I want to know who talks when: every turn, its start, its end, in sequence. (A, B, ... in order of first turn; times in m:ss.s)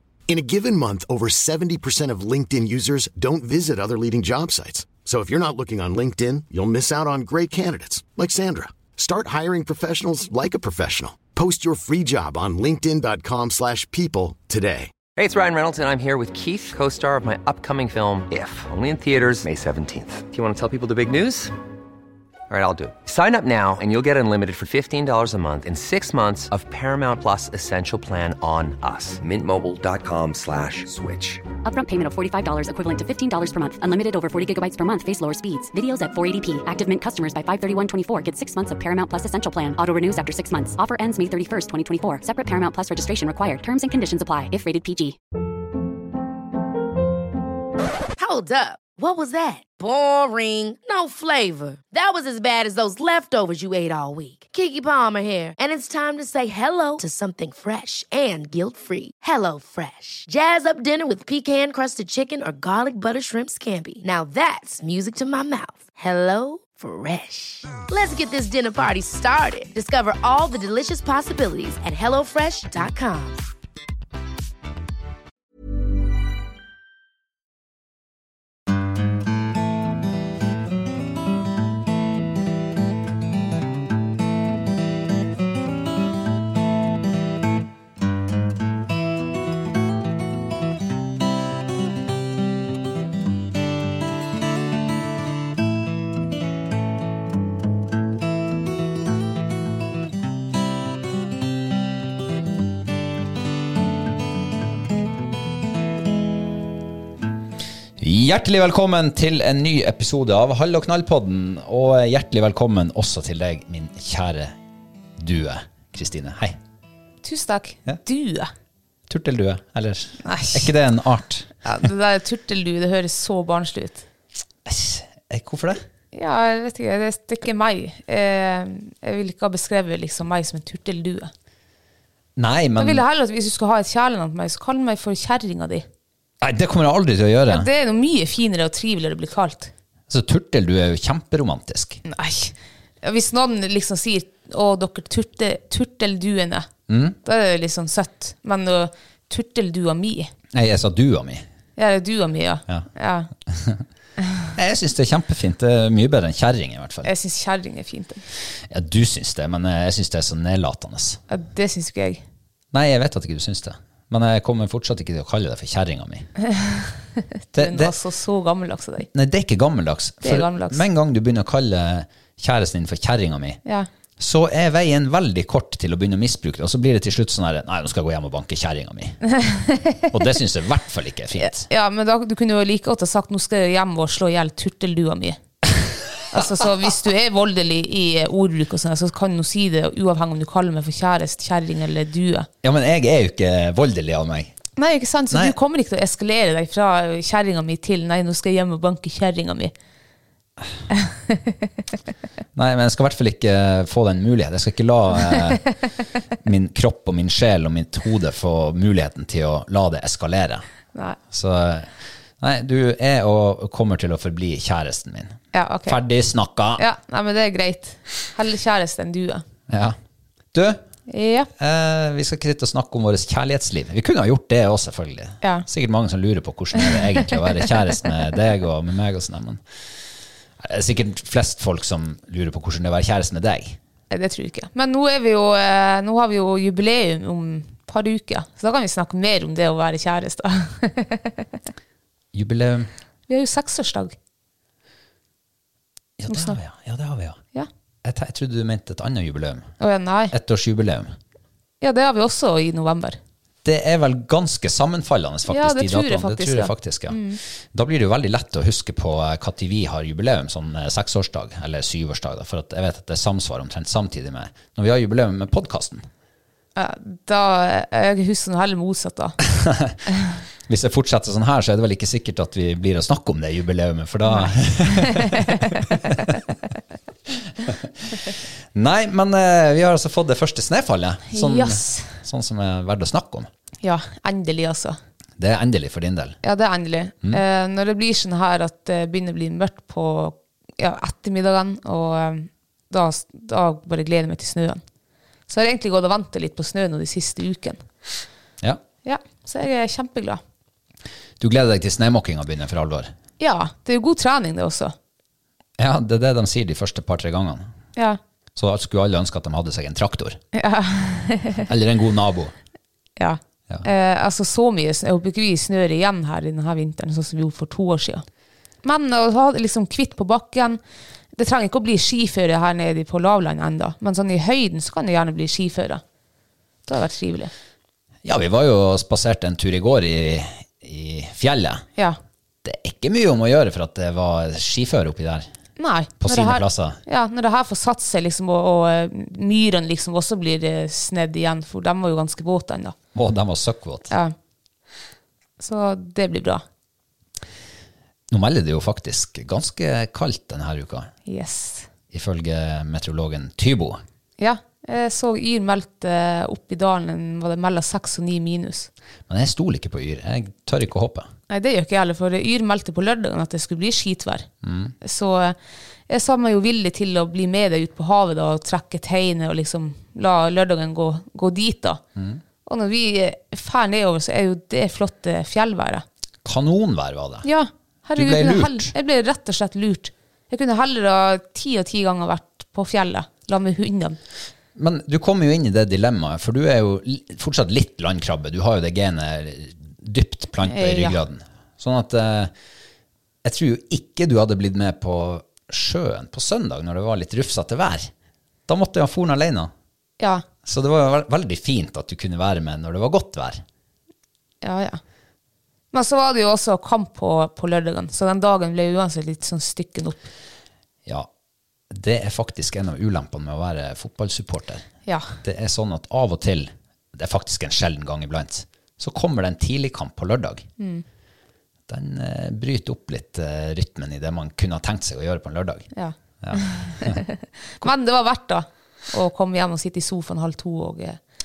0:00.3-0:14.9 A
0:15.2-0:21.5 B
0:22.5-0:31.4 B
0:31.6-0:45.2 C
0:48.2-1:13.4 D
1:48.0-1:54.6 E
1:55.2-1:56.6 E
1:57.2-1:58.5 F
1:59.1-2:01.5 E
2:00.2-2:00.7 F
2:01.6-2:04.0 F
2:04.6-2:05.8 E
2:06.1-2:11.3 F
2:12.4-2:13.0 E
2:12.8-2:15.9 F
2:16.4-2:17.7 E
2:17.5-2:19.7 F
2:20.1-2:22.0 E
2:22.0-2:26.7 F
2:26.9-2:27.2 E
2:27.2-2:30.3 F
2:30.5-2:31.5 E
2:31.8-2:33.3 F
2:33.5-2:33.8 E
2:34.6-2:37.1 E
2:37.0-2:38.2 F
2:38.7-2:41.2 E
2:41.3-2:42.2 F
2:42.7-2:46.3 E
2:46.5-2:47.0 F
2:47.5-2:49.1 F
2:47.6-2:48.0 E
2:49.1-2:53.6 E
2:50.2-2:50.8 F
2:54.2-2:59.2 E
2:59.4-3:00.1 F
3:00.1-3:01.7 E
3:01.4-3:05.4 F
3:06.3-3:12.5 F
3:12.6-3:14.6 E
3:14.8-3:19.7 F
3:20.9-3:21.5 F
3:22.6-3:25.7 E
3:26.4-3:30.6 E
3:31.3-3:36.8 E
3:35.5-3:36.0 F
3:36.8-3:39.4 F
3:39.7-3:40.0 E
3:40.5-3:40.8 E
3:41.1-3:41.5 F
3:41.6-3:49.6 E
3:50.6-3:53.8 E
3:54.1-4:01.5 F
4:02.3-4:02.9 E
4:03.3-4:04.2 F
4:06.2-4:07.4 E
4:06.3-4:06.6 F
4:08.0-4:09.7 E
4:09.8-4:10.3 F
4:10.3-4:11.2 E
4:11.8-4:13.2 F
4:13.6-4:26.1 E
4:15.5-4:17.4 F
4:26.8-4:29.4 F
4:29.5-4:30.0 E
4:30.7-4:36.2 E
4:34.3-4:35.8 F
4:37.6-4:43.5 E
4:41.3-4:42.2 F
4:43.8-4:45.0 F
4:45.4-4:46.4 E
4:46.4-4:54.8 F
4:55.5-4:57.8 F
4:59.0-5:00.4 F
5:01.4-5:03.1 E
5:03.4-5:04.9 F
5:05.8-5:07.7 E
5:08.6-5:10.4 E
5:10.6-5:11.6 F
5:11.6-5:12.5 E
5:13.2-5:18.2 F
5:18.8-5:20.8 F
5:21.4-5:26.0 F
5:26.9-5:27.5 F
5:28.2-5:31.9 E
5:32.6-5:35.5 E
5:35.8-5:43.0 F
5:36.2-5:37.0 E
5:43.1-5:44.1 E
5:44.1-5:44.4 F
5:45.6-5:46.6 F
5:48.3-5:51.1 E
5:51.3-5:51.9 F
5:52.1-5:54.0 E
5:54.4-5:58.9 F
5:59.3-6:01.3 E
6:01.5-6:04.5 F
6:04.6-6:04.9 E
6:05.0-6:12.0 F
6:12.2-6:12.4 E
6:12.7-6:16.0 F
6:16.4-6:17.5 E
6:17.4-6:24.2 F
6:18.2-6:18.9 E
6:24.8-6:32.5 E
6:30.6-6:31.2 F
6:33.4-6:38.1 E
6:38.7-6:39.7 E
6:40.2-6:40.4 F
6:40.6-6:43.6 E
6:44.6-6:45.0 F
6:45.9-6:50.3 F
6:51.9-6:54.9 E
6:55.1-6:55.4 F
6:55.4-7:00.7 E
7:00.8-7:01.0 F
7:01.9-7:05.9 E
7:05.9-7:11.2 F
7:06.4-7:07.2 E